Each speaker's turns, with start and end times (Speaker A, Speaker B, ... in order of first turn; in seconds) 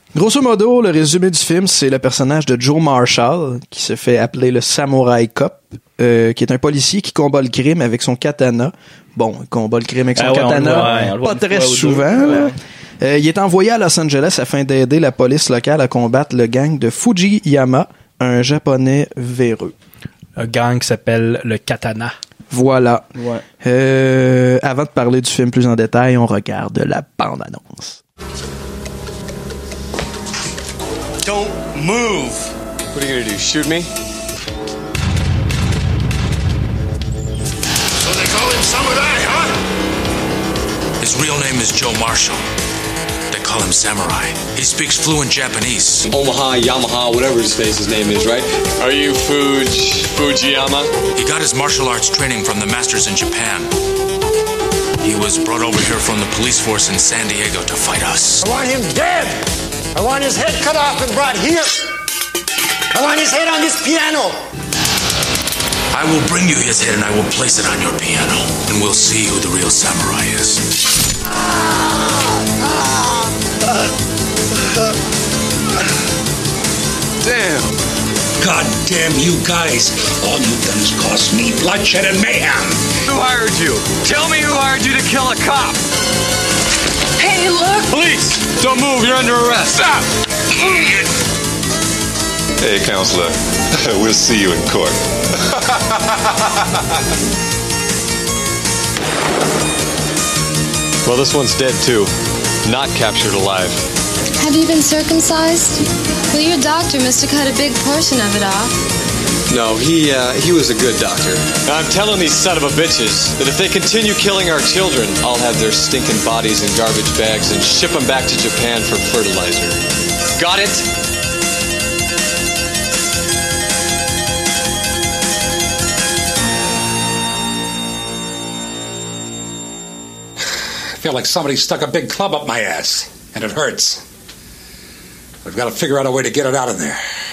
Speaker A: 0.1-19.7, 22.5-23.1, 23.6-28.0
Speaker B: 10.2-12.6, 23.1-23.4
Speaker C: 10.6-11.2, 20.4-22.2
Speaker D: 31.2-33.9, 46.1-50.9, 77.2-77.8, 83.0-85.8, 87.8-90.1, 90.6-90.9, 101.0-102.1, 102.6-103.9, 109.5-119.8, 120.4-120.9
Speaker E: 41.0-42.4, 43.3-46.1, 51.1-53.7, 55.0-58.5, 65.9-70.7
Speaker F: 58.4-61.9, 62.9-64.4, 78.4-82.8, 131.0-134.0, 135.4-137.0
Speaker G: 87.2-87.9, 104.4-108.7
Speaker H: 92.6-96.4